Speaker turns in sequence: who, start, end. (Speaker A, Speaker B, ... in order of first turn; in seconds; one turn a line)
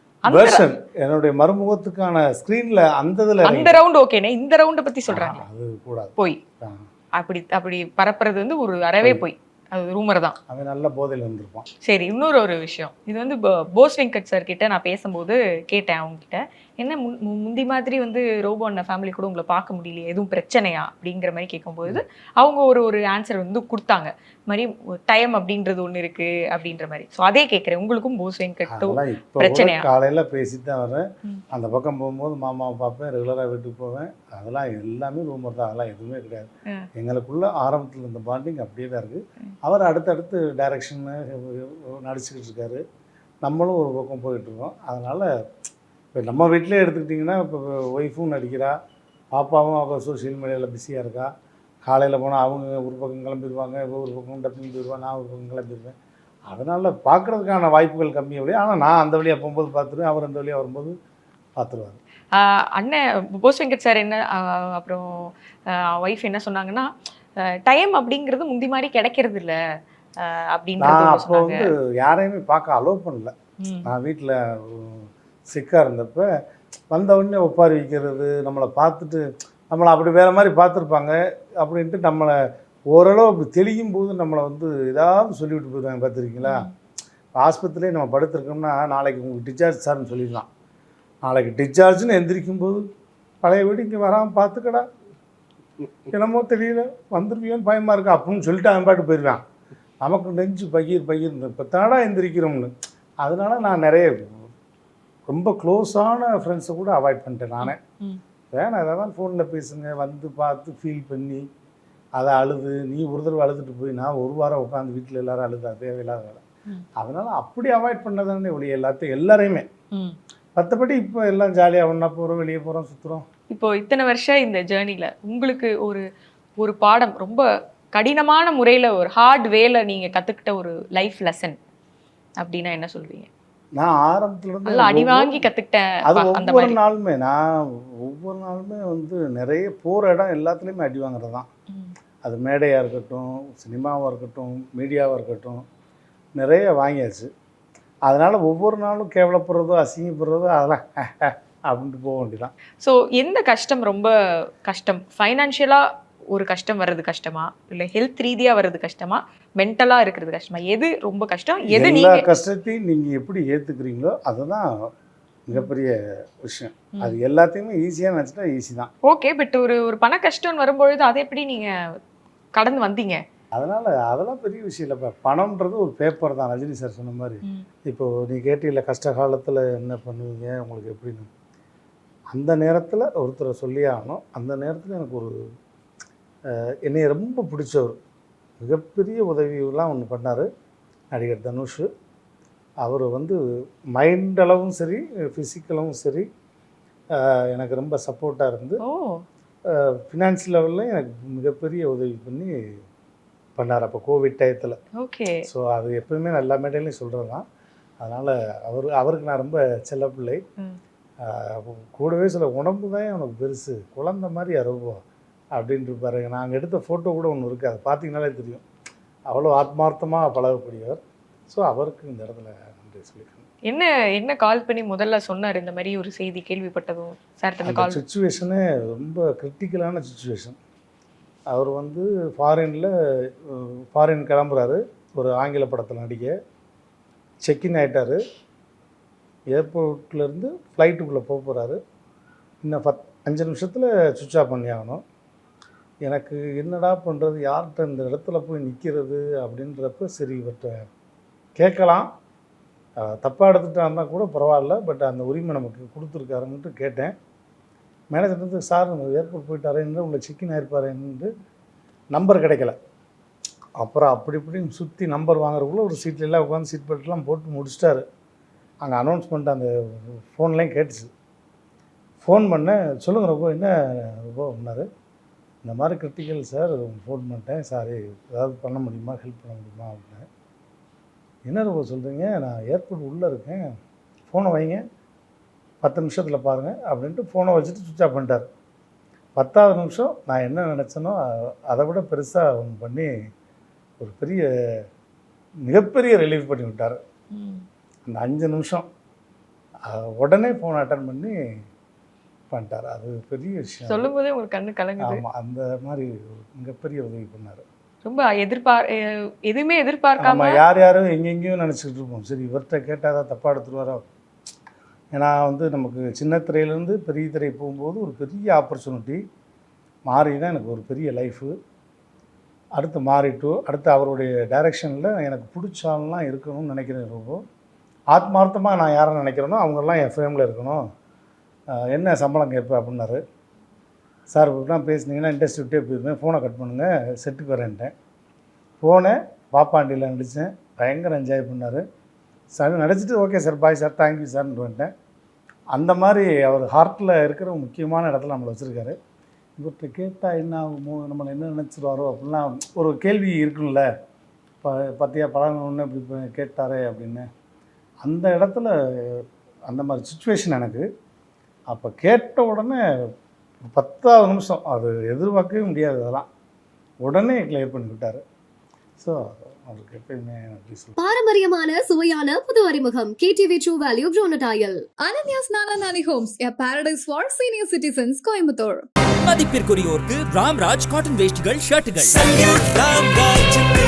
Speaker A: 0.2-0.7
Speaker B: 0.3-3.8
Speaker A: 3.4-5.4
Speaker B: 5.1-6.8
Speaker A: 7.2-10.4
Speaker B: 10.5-11.7
Speaker A: 11.8-29.9
Speaker B: 28.7-42.8
Speaker B: 43.4-45.3
Speaker B: 46.1-48.7
Speaker B: 49.4-51.3
Speaker B: 51.9-56.0
Speaker B: 56.5-60.9
Speaker B: 61.6-62.0
Speaker A: 62.3-65.3
Speaker A: 65.9-66.9
Speaker A: 67.6-69.6
Speaker A: 70.2-71.6
Speaker B: 70.8-73.3
Speaker A: 73.6-73.9
Speaker B: 73.8-76.3
Speaker B: 76.9-82.3
Speaker B: 82.9-86.7
Speaker A: 86.4-86.7
Speaker B: 87.4-90.5
Speaker B: 91.2-92.8
Speaker B: 93.4-94.8
Speaker B: 96.1-99.4
Speaker B: 100.0-102.7
Speaker B: 103.2-104.4
Speaker B: 105.3-107.8
Speaker A: 107.6-108.2
Speaker B: 108.5-111.4
Speaker B: 112.2-116.4
Speaker B: 117.0-119.7
Speaker B: 120.6-123.2
Speaker A: 123.5-126.0
Speaker A: 126.6-127.4
Speaker A: 128.0-131.6
Speaker A: 132.4-133.3
Speaker B: 133.8-135.5
Speaker A: 134.7-136.8
Speaker B: 136.1-141.5
Speaker B: 142.2-145.6
Speaker B: 146.4-147.3
Speaker B: 148.1-152.5
Speaker A: 152.8-154.1
Speaker A: 154.7-162.2
Speaker B: 161.7-164.7
Speaker B: 165.5-168.9
Speaker A: 169.1-171.7
Speaker A: 172.6-173.2
Speaker B: 173.6-181.3
Speaker B: 182.3-185.3
Speaker B: 186.8-188.0
Speaker B: 188.6-190.5
Speaker B: 191.1-191.9
Speaker B: 192.8-193.4
Speaker B: 194.0-196.3
Speaker B: 197.2-198.8
Speaker A: 198.8-199.1
Speaker B: 199.7-202.5
Speaker B: 203.6-204.8
Speaker A: 205.0-205.4
Speaker B: 205.5-207.4
Speaker B: 208.0-210.4
Speaker B: 211.2-215.0
Speaker B: 215.6-218.6
Speaker B: 219.3-223.5
Speaker A: 223.7-228.0
Speaker B: 227.6-230.6
Speaker B: 231.5-232.9
Speaker B: 233.4-236.3
Speaker B: 237.4-238.2
Speaker B: 239.5-241.8
Speaker B: 242.6-245.0
Speaker B: 246.1-250.9
Speaker B: 251.6-252.1
Speaker B: 253.0-257.1
Speaker B: 258.1-261.3
Speaker B: 262.1-262.8
Speaker B: 263.8-268.0
Speaker B: 268.8-271.1
Speaker B: 272.2-274.9
Speaker B: 275.6-280.3
Speaker B: 281.5-283.6
Speaker B: 284.3-284.8
Speaker B: 285.8-288.4
Speaker B: 289.4-291.2
Speaker B: 291.7-293.1
Speaker B: 294.0-294.5
Speaker B: 295.7-297.0
Speaker A: 297.4-297.6
Speaker B: 298.1-298.9
Speaker B: 299.9-301.4
Speaker B: 302.5-304.1
Speaker A: 303.9-305.2
Speaker B: 305.0-307.6
Speaker A: 308.1-310.6
Speaker B: 310.2-314.0
Speaker B: 315.1-319.2
Speaker B: 320.1-321.5
Speaker B: 322.8-327.4
Speaker B: 328.1-330.8
Speaker B: 331.7-333.2
Speaker B: 334.3-337.9
Speaker B: 338.8-341.8
Speaker B: 342.5-344.9
Speaker B: 345.7-348.9
Speaker B: 349.6-353.9
Speaker B: 354.6-357.2
Speaker B: 358.0-360.9
Speaker B: 361.7-362.8
Speaker B: 363.7-366.3
Speaker B: 367.1-368.2
Speaker B: 369.0-370.9
Speaker C: 371.0-374.9
Speaker D: 375.0-378.9
Speaker E: 379.2-382.3
Speaker E: 383.4-383.7